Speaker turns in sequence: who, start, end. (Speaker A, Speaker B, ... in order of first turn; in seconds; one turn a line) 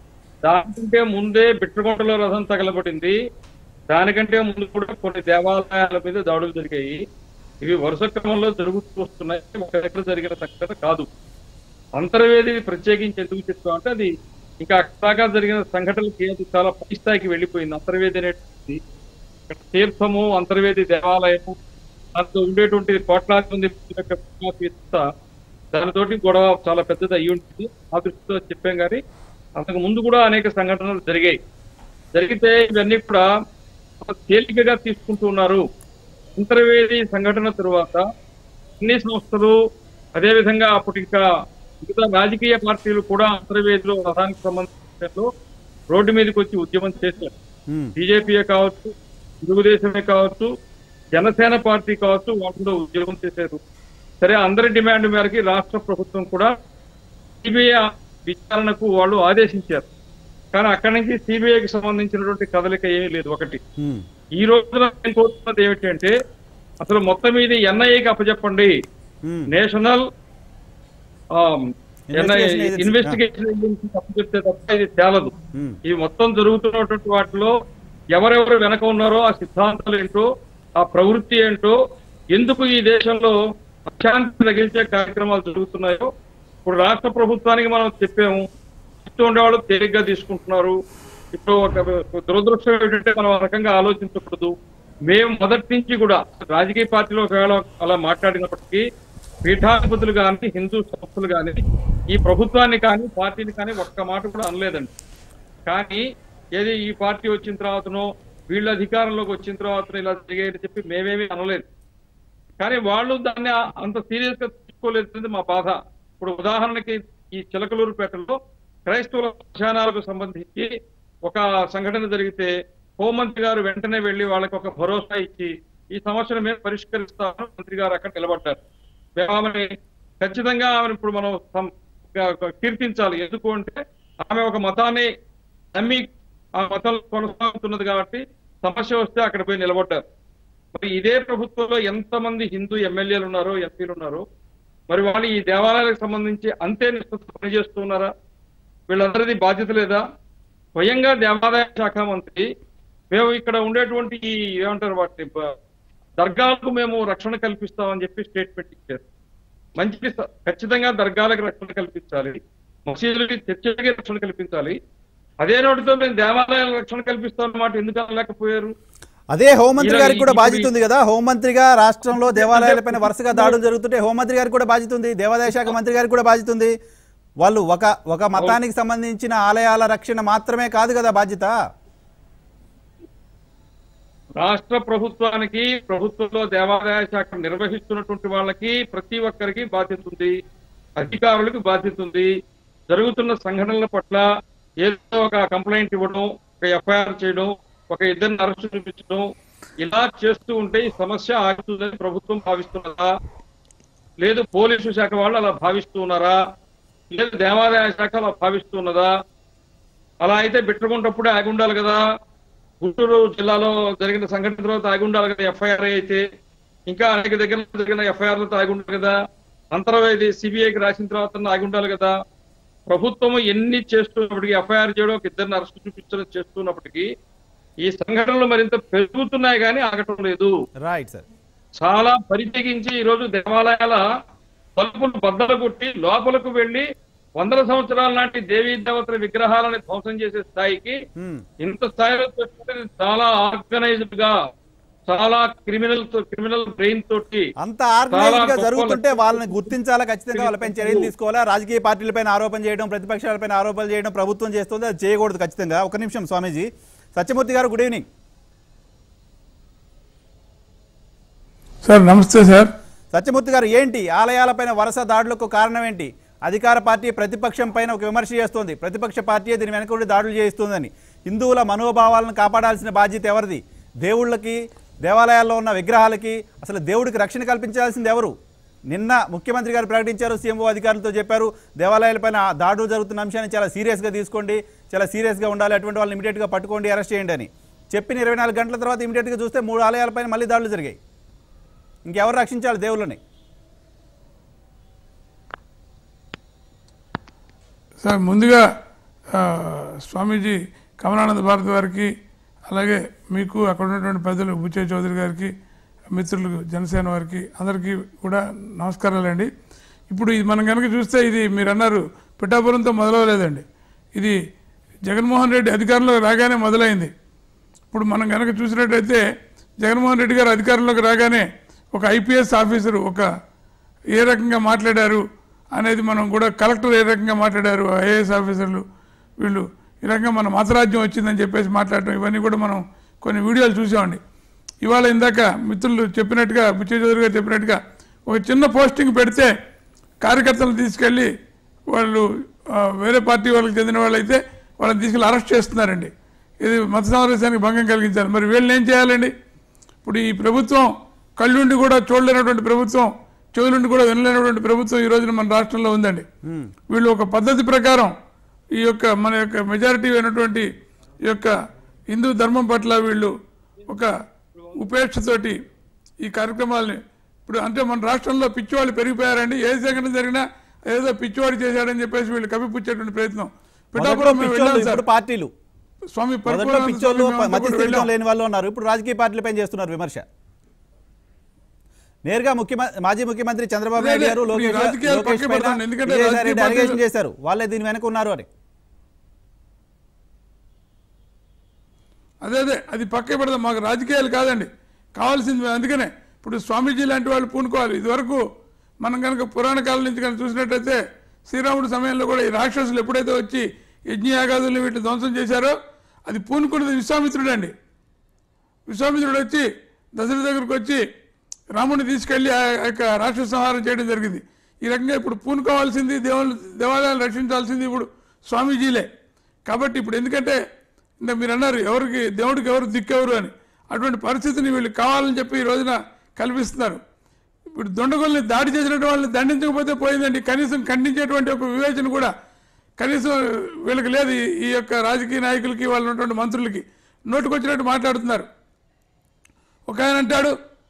Speaker A: 0.4-3.1
Speaker A: 3.9-7.0
Speaker A: 7.6-11.1
Speaker A: 12.0-18.8
Speaker A: 19.5-21.6
Speaker A: 22.1-25.1
Speaker A: 25.7-29.0
Speaker A: 29.6-31.4
Speaker A: 32.1-33.3
Speaker A: 34.0-35.6
Speaker A: 36.4-38.0
Speaker A: 38.8-39.6
Speaker A: 40.2-41.2
Speaker A: 41.8-45.3
Speaker A: 45.9-47.3
Speaker B: 47.7-47.9
Speaker A: 48.0-50.5
Speaker A: 51.1-53.6
Speaker A: 54.2-56.5
Speaker A: 57.4-59.9
Speaker A: 60.5-63.6
Speaker B: 63.8-64.0
Speaker A: 64.4-66.2
Speaker A: 66.8-68.8
Speaker A: 69.5-70.0
Speaker A: 71.3-75.3
Speaker B: 72.1-73.2
Speaker A: 75.8-77.5
Speaker A: 78.1-80.3
Speaker A: 80.8-81.8
Speaker A: 82.3-83.3
Speaker A: 83.9-86.1
Speaker A: 86.7-88.5
Speaker A: 89.0-90.8
Speaker A: 91.3-94.5
Speaker A: 95.1-98.8
Speaker A: 99.4-104.9
Speaker A: 105.7-106.0
Speaker A: 106.5-111.6
Speaker A: 112.6-120.7
Speaker A: 121.2-128.6
Speaker A: 129.2-135.1
Speaker A: 135.7-140.0
Speaker A: 140.7-144.2
Speaker A: 144.9-148.1
Speaker A: 148.9-150.0
Speaker A: 150.8-152.4
Speaker A: 153.1-155.5
Speaker A: 156.2-159.0
Speaker A: 159.8-164.8
Speaker A: 165.4-168.7
Speaker B: 169.3-176.7
Speaker A: 169.8-170.7
Speaker A: 172.3-173.6
Speaker B: 177.4-181.5
Speaker A: 184.4-190.3
Speaker A: 191.0-192.3
Speaker A: 192.9-194.2
Speaker A: 194.8-199.3
Speaker A: 199.8-203.1
Speaker A: 204.2-206.4
Speaker A: 207.1-209.1
Speaker A: 210.2-212.0
Speaker A: 212.8-216.2
Speaker A: 216.9-219.1
Speaker A: 219.7-222.1
Speaker A: 222.9-227.1
Speaker A: 227.8-230.5
Speaker B: 230.8-231.2
Speaker A: 231.8-234.0
Speaker A: 234.8-236.8
Speaker A: 237.4-241.0
Speaker B: 241.2-241.4
Speaker A: 241.6-244.4
Speaker A: 245.1-247.5
Speaker B: 247.6-258.1
Speaker A: 248.1-249.7
Speaker A: 250.3-251.1
Speaker C: 261.8-262.7
Speaker B: 263.1-278.3
Speaker B: 278.9-291.0
Speaker B: 292.0-293.2
Speaker C: 298.0-298.6
Speaker C: 299.3-302.1
Speaker C: 302.7-305.5
Speaker C: 306.1-309.5
Speaker C: 310.1-313.6
Speaker C: 315.1-317.1
Speaker C: 317.9-319.2
Speaker C: 319.8-323.3
Speaker C: 324.1-325.2
Speaker C: 325.7-328.8
Speaker C: 329.4-334.2
Speaker C: 334.8-339.5
Speaker C: 340.2-341.3
Speaker C: 341.9-346.1
Speaker C: 346.6-349.3
Speaker C: 350.0-356.2
Speaker B: 356.4-356.7
Speaker C: 356.9-358.1
Speaker C: 358.8-360.7
Speaker C: 361.2-361.5
Speaker C: 362.1-363.3
Speaker C: 364.8-365.6
Speaker C: 366.2-375.0
Speaker B: 374.0-375.5
Speaker C: 376.1-378.1
Speaker B: 376.5-380.2
Speaker B: 382.2-388.5
Speaker C: 384.0-387.0
Speaker C: 392.4-398.4
Speaker C: 399.0-405.8
Speaker C: 406.3-407.7
Speaker C: 408.9-411.0
Speaker C: 411.7-419.1
Speaker C: 419.7-420.6
Speaker C: 421.2-427.0
Speaker C: 427.7-432.3
Speaker C: 433.0-438.4
Speaker C: 439.9-440.5